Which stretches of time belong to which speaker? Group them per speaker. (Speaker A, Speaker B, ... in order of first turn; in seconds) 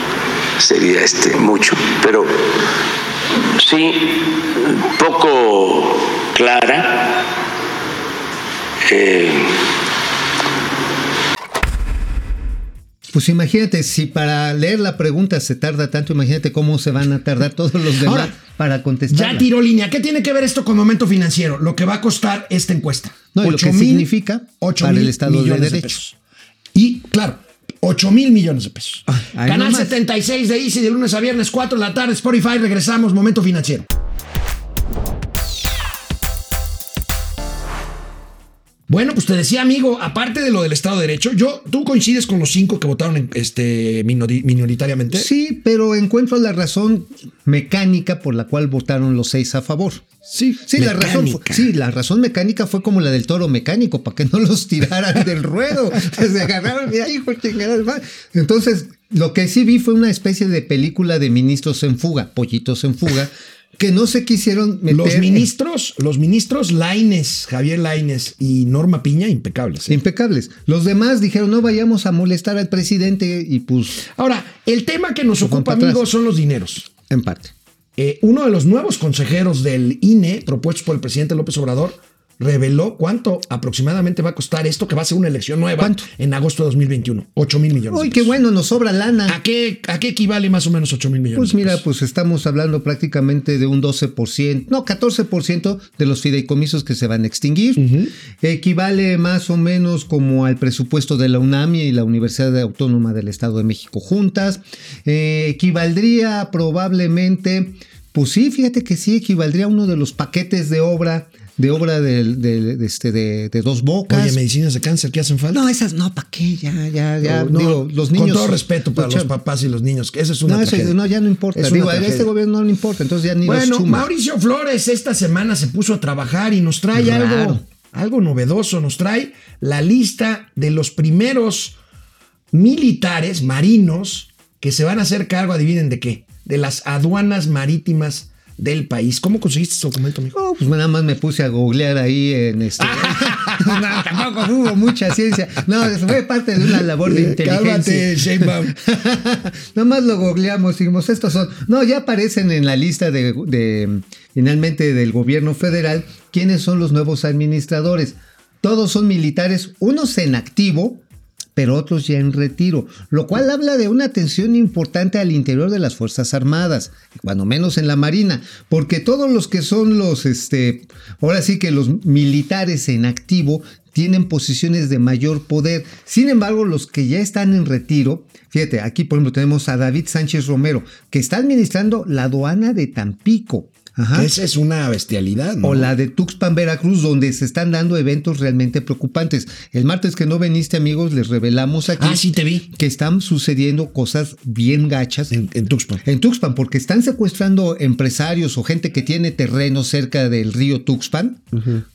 Speaker A: 0.6-2.4, 3.6-7.2, 8.9-9.6
Speaker B: 13.1-19.5, 23.4-25.9, 29.1-30.0, 45.1-50.0, 50.7-65.5, 69.9-74.0, 75.4-76.1, 77.1-77.5, 85.8-86.1, 87.9-89.4, 91.3-114.4, 115.5-119.3, 120.5-124.1, 126.9-127.6, 140.3-161.0, 161.6-184.3, 185.6-195.3, 196.0-201.5
Speaker C: 18.0-18.4, 19.1-24.1, 24.6-26.2, 26.7-33.9, 38.9-45.3, 50.3-51.7, 64.9-70.0, 74.2-76.9, 78.0-88.3, 89.3-91.8, 97.8-98.1, 114.1-115.6, 117.2-121.0, 121.5-122.3, 123.4-131.8, 132.5-140.4, 142.8-144.3, 146.7-148.8, 184.1-185.9, 192.0-192.7, 195.3-196.0, 201.6-201.8